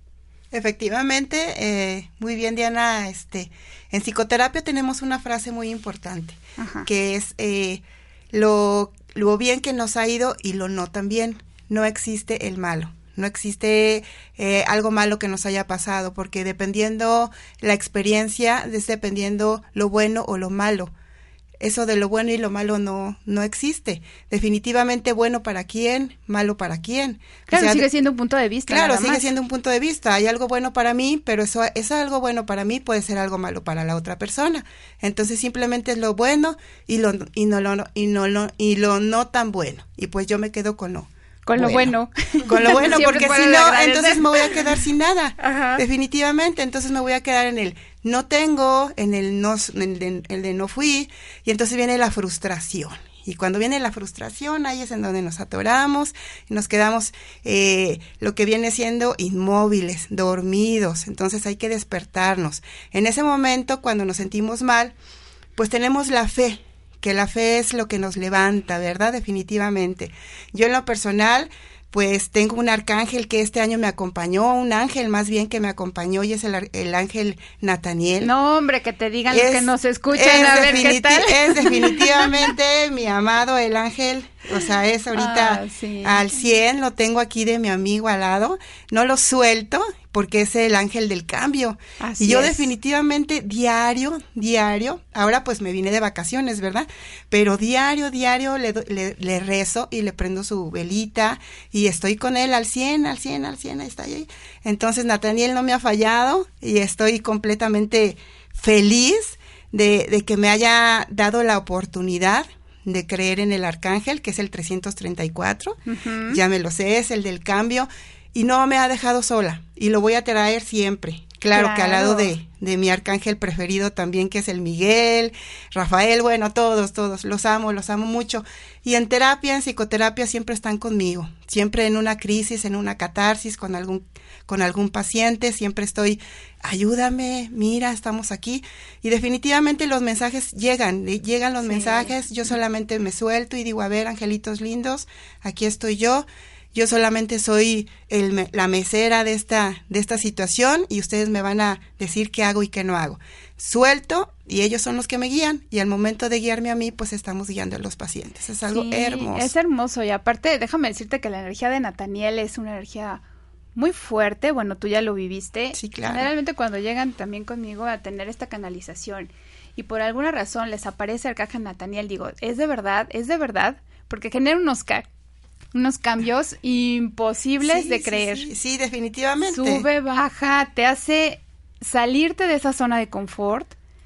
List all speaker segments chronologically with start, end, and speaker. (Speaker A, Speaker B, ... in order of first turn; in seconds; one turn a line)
Speaker A: 0.5-20.9
Speaker B: 6.6-6.9
Speaker A: 21.6-27.9
Speaker B: 27.5-29.3
Speaker A: 28.7-41.9
Speaker B: 41.5-44.6
Speaker A: 42.5-64.9
Speaker B: 45.4-45.8
Speaker A: 65.6-78.3
Speaker B: 78.2-82.3
Speaker A: 79.3-159.5
Speaker B: 85.1-86.3
Speaker B: 92.0-92.7
Speaker B: 115.9-116.4
Speaker B: 121.5-122.3
Speaker B: 141.7-142.1
Speaker B: 158.7-163.2
Speaker B: 163.8-175.1
Speaker A: 165.8-166.3
Speaker B: 175.7-178.5
Speaker A: 177.6-179.8
Speaker B: 179.5-183.8